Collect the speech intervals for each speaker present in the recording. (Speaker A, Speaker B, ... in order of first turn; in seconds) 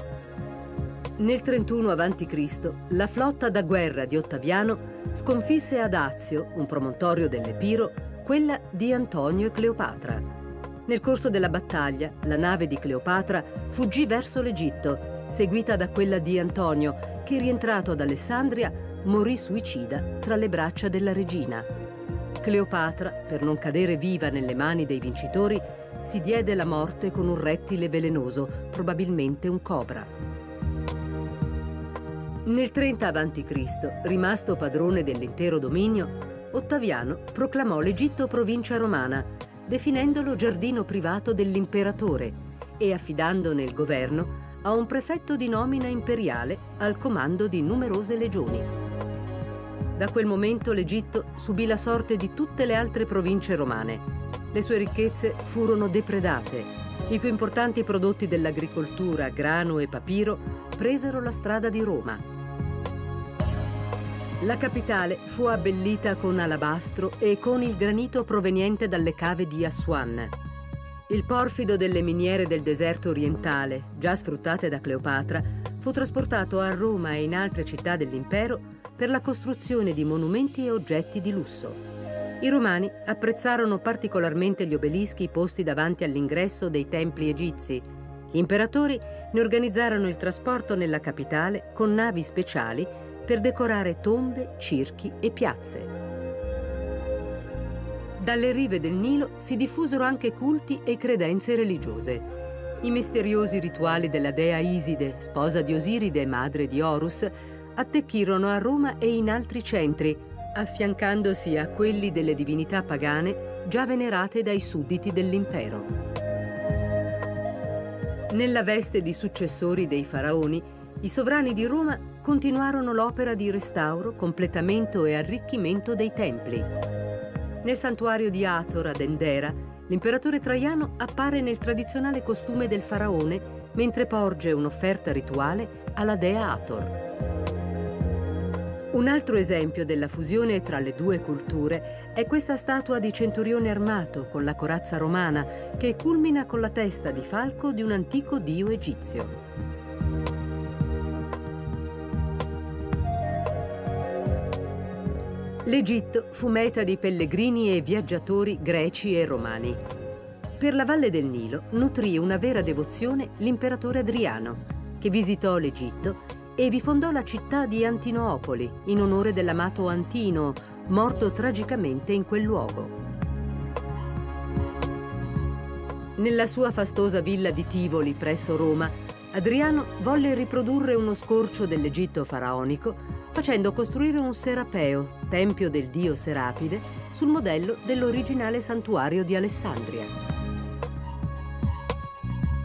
Speaker A: 1.2-10.2, 10.9-21.7, 22.4-30.1, 32.5-48.7, 50.0-62.2, 64.4-70.3, 71.1-81.8, 82.4-95.9, 98.2-102.2, 102.8-115.9, 118.3-126.7, 127.6-136.9, 138.9-149.3, 155.6-159.8, 160.6-172.9, 176.2-190.1